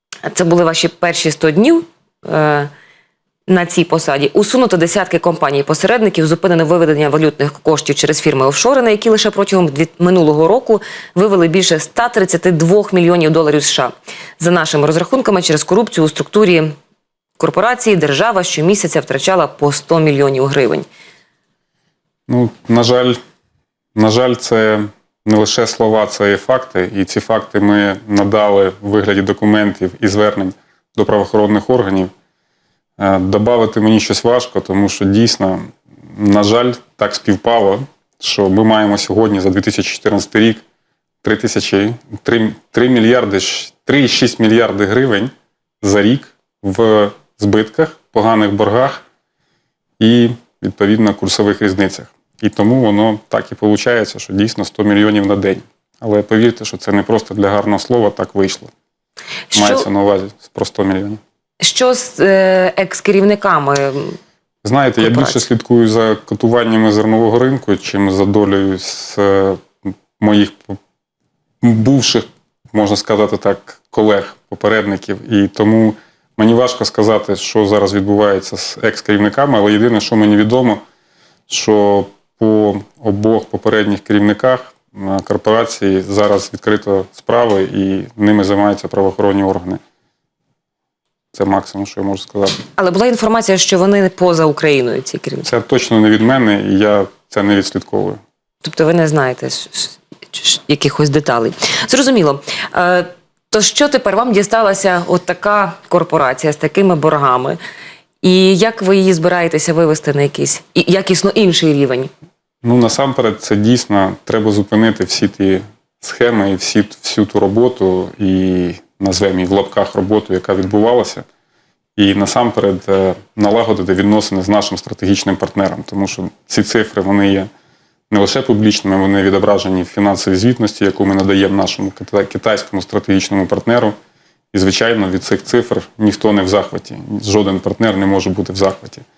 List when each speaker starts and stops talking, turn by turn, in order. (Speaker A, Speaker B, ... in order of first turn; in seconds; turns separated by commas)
Speaker A: 0.2-2.7, Speaker A: 3.5-16.7, Speaker A: 17.4-20.9, Speaker B: 22.3-23.2, Speaker B: 24.0-32.1, Speaker B: 33.0-40.6, Speaker B: 41.2-49.0, Speaker B: 50.0-58.7, Speaker A: 59.5-59.9, Speaker B: 59.5-61.2, Speaker A: 61.6-64.2, Speaker B: 64.6-70.8, Speaker A: 65.0-65.4, Speaker B: 71.6-80.8, Speaker B: 81.5-89.8, Speaker B: 91.3-92.6, Speaker A: 92.8-95.5, Speaker B: 95.5-98.2, Speaker A: 98.6-107.6, Speaker A: 108.2-112.1, Speaker B: 112.6-121.2, Speaker B: 122.0-127.5, Speaker B: 128.1-133.9, Speaker B: 134.5-139.0